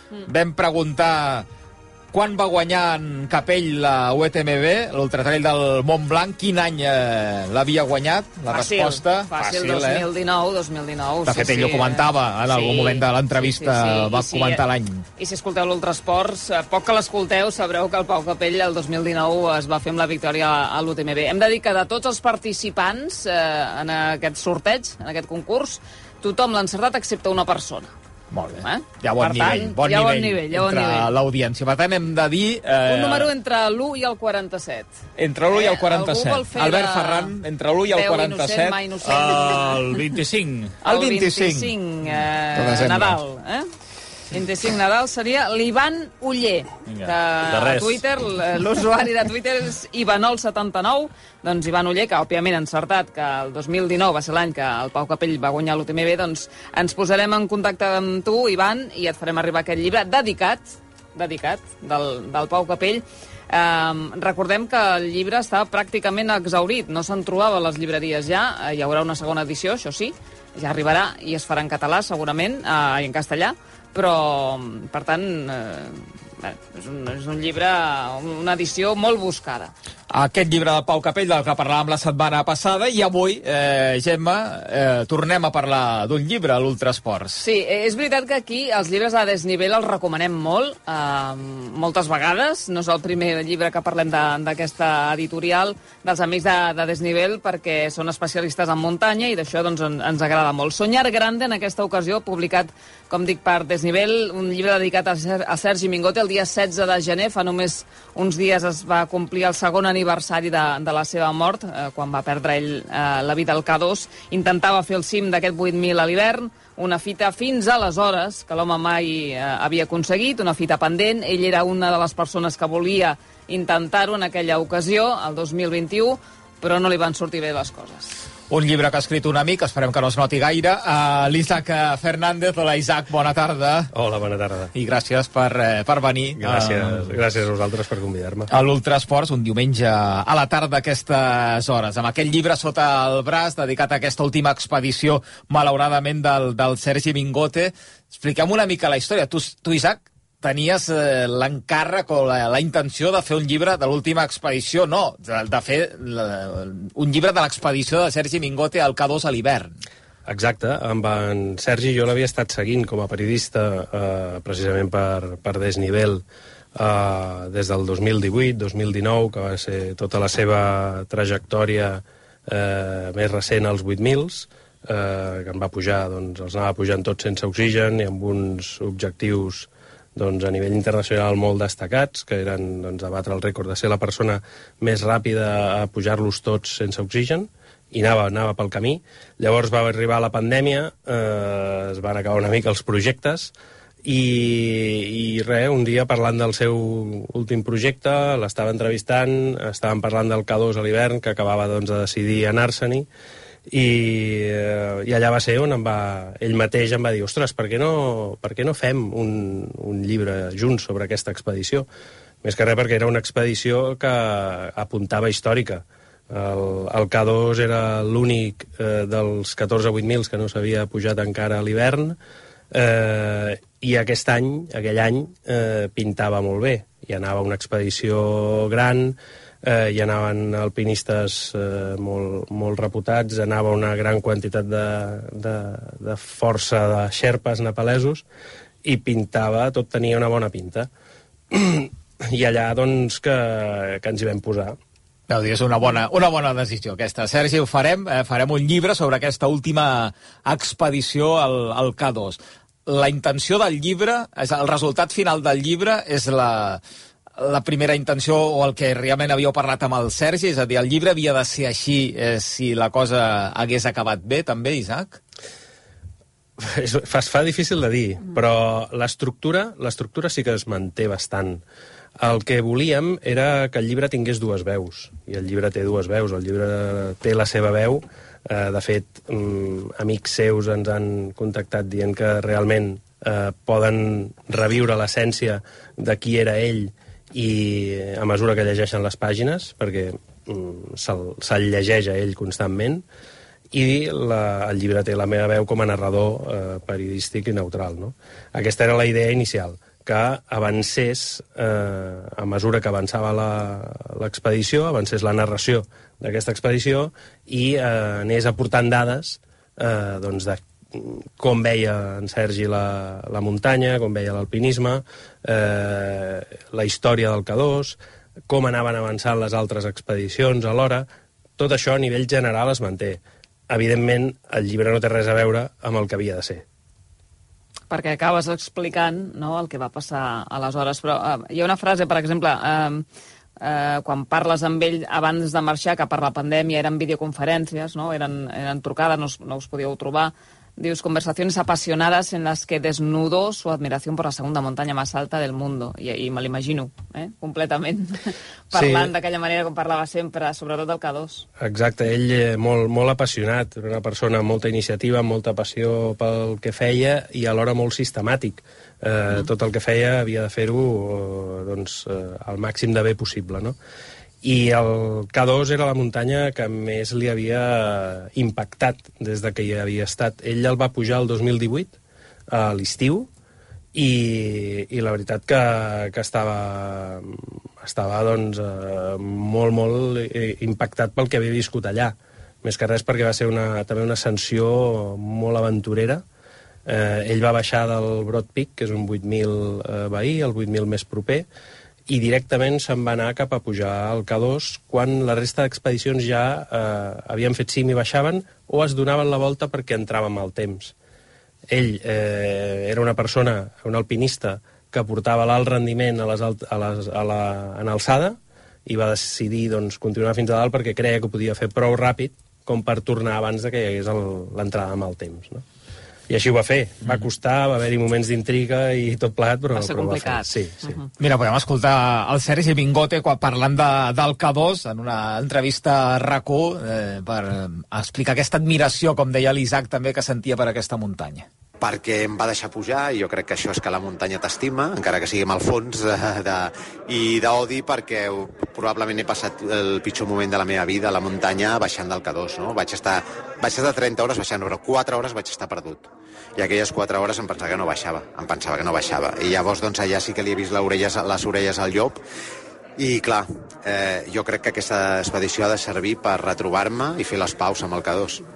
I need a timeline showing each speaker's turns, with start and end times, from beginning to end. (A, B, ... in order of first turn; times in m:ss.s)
0:00.2-0:01.5 A
0:02.1-0:10.1 A
0:08.5-0:14.6 B
0:11.3-0:15.1 A
0:15.2-0:27.9 B
0:28.3-0:33.3 A
0:28.6-0:31.1 B
0:32.8-0:35.0 B
0:35.2-0:38.8 A
0:35.5-0:37.4 B
0:37.9-0:39.8 B
0:39.0-0:40.8 C
0:40.8-0:43.7 B
0:40.8-0:41.7 A
0:42.6-0:43.2 A
0:44.3-1:19.7 B
0:47.0-0:48.0 C
1:20.1-1:27.4 A
1:27.4-2:08.2 B
2:08.5-2:13.9 A
2:13.9-2:14.7 D
2:14.7-2:17.2 A
2:16.4-2:18.5 D
2:18.5-2:39.7 A
2:40.3-2:46.2 D
2:46.8-3:13.5 D
3:14.0-3:23.1 D
3:23.7-3:31.9 D
3:32.4-3:42.2 D
3:42.7-3:58.2 D
3:58.8-4:00.9 D
4:01.5-4:04.8 D
4:05.3-4:16.8 A
4:17.4-4:25.2 A
4:26.6-4:31.6 D
4:32.2-4:53.0 D
4:53.7-5:18.0 D
5:18.5-5:21.1 D
5:21.6-5:26.6 D
5:27.9-5:33.1 B
5:33.6-5:51.5 B
5:48.7-5:49.1 D
5:51.6-6:03.8 D
6:04.4-6:12.0 D
6:12.5-6:13.3 D
6:13.9-6:26.2 D
6:26.9-6:31.5 D
6:32.1-6:40.9 D
6:41.7-6:55.6 D
6:56.3-7:01.0 D
6:59.7-7:01.0 B
7:01.2-7:11.5 A
7:11.8-7:32.2 E
7:33.0-7:38.4 E